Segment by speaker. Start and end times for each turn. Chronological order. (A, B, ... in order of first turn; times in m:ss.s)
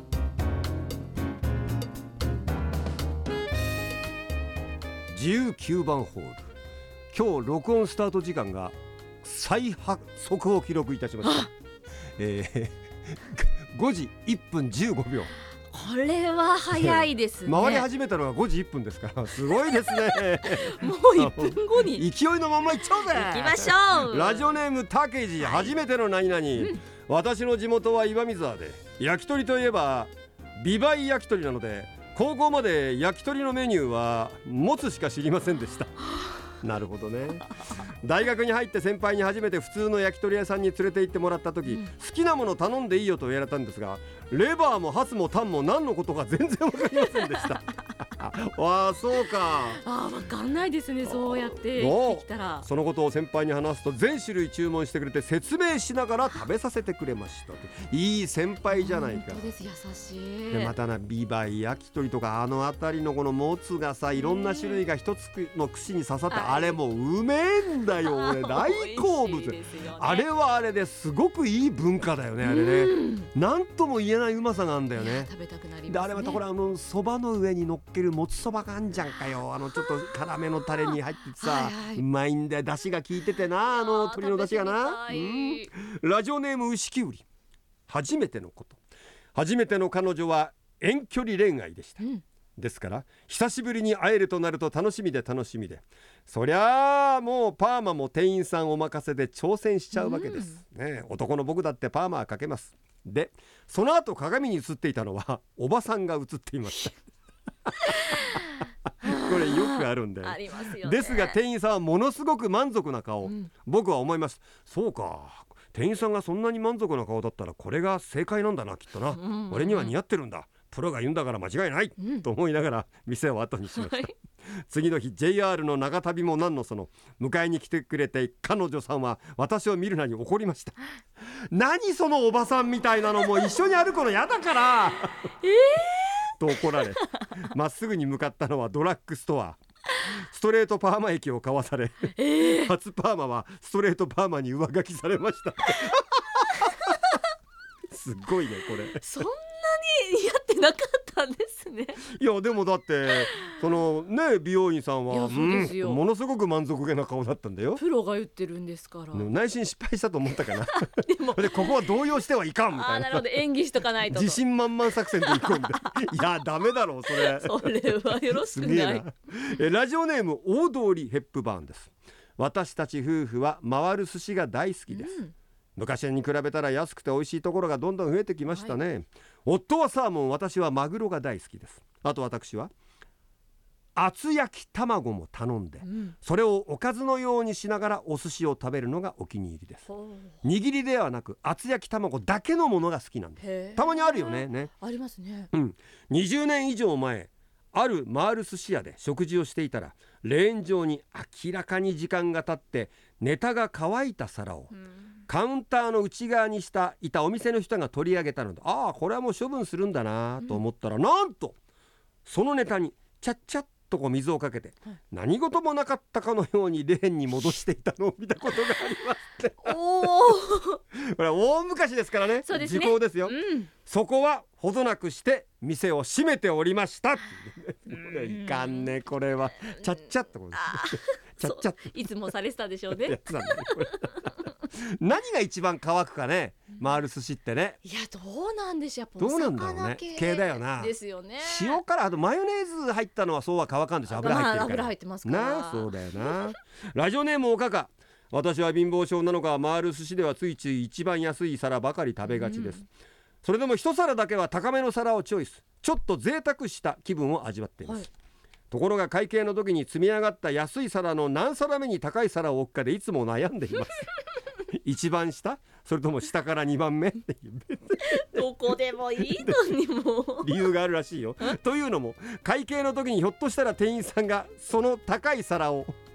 0:05.1-0:06.5 A
0:07.1-0:11.5 A
0:11.2-0:11.5 B
0:12.2-0:15.3 A
0:15.7-0:17.9 B
0:16.7-0:36.0 A
0:19.5-0:22.0 B
0:23.0-0:24.5 B
0:25.4-0:25.8 B
0:36.6-0:49.8 A
0:47.0-0:47.5 B
0:49.7-0:52.7 B
0:51.0-0:59.4 A
0:58.7-1:00.8 B
1:00.5-1:15.3 A
1:04.2-1:04.8 B
1:06.3-1:06.8 B
1:08.0-1:10.3 B
1:12.4-1:13.3 B
1:15.0-1:16.4 B
1:15.9-1:27.2 A
1:21.4-1:22.0 B
1:23.6-1:25.7 B
1:27.9-1:28.8 A
1:29.4-1:32.0 A
1:32.6-1:47.0 A
1:39.9-1:40.6 B
1:47.7-2:04.1 A
1:47.8-1:51.4 B
1:59.1-1:59.9 B
2:02.0-2:02.3 B
2:03.7-2:04.1 B
2:04.7-2:10.8 A
2:11.5-2:15.3 A
2:15.4-2:17.3 B
2:16.4-2:26.9 A
2:22.2-2:22.7 B
2:26.6-2:26.9 B
2:27.9-2:29.0 A
2:29.0-2:32.0 B
2:32.0-2:37.8 A
2:33.1-2:33.6 B
2:35.1-2:36.0 B
2:37.8-2:39.3 B
2:39.1-2:43.3 A
2:40.4-2:42.1 B
2:42.7-2:46.2 B
2:44.1-2:55.2 A
2:47.1-2:49.1 B
2:54.9-2:55.3 B
2:55.8-3:02.7 A
2:58.5-2:58.8 B
3:04.0-3:09.9 A
3:05.8-3:06.2 B
3:09.9-3:10.4 B
3:10.4-3:14.7 A
3:13.4-3:15.5 B
3:15.5-3:24.7 A
3:25.3-3:31.6 A
3:32.2-3:40.4 A
3:39.6-3:40.8 B
3:40.9-3:51.9 A
3:42.5-3:43.7 B
3:48.0-3:48.9 B
3:50.5-3:54.3 B
3:53.0-3:57.8 A
3:57.8-4:01.8 B
3:59.2-4:12.8 A
4:04.1-4:06.5 B
4:12.2-4:12.8 B
4:13.4-4:18.1 A
4:18.7-4:24.1 A
4:24.7-4:28.5 A
4:28.0-4:30.6 B
4:30.4-4:36.0 A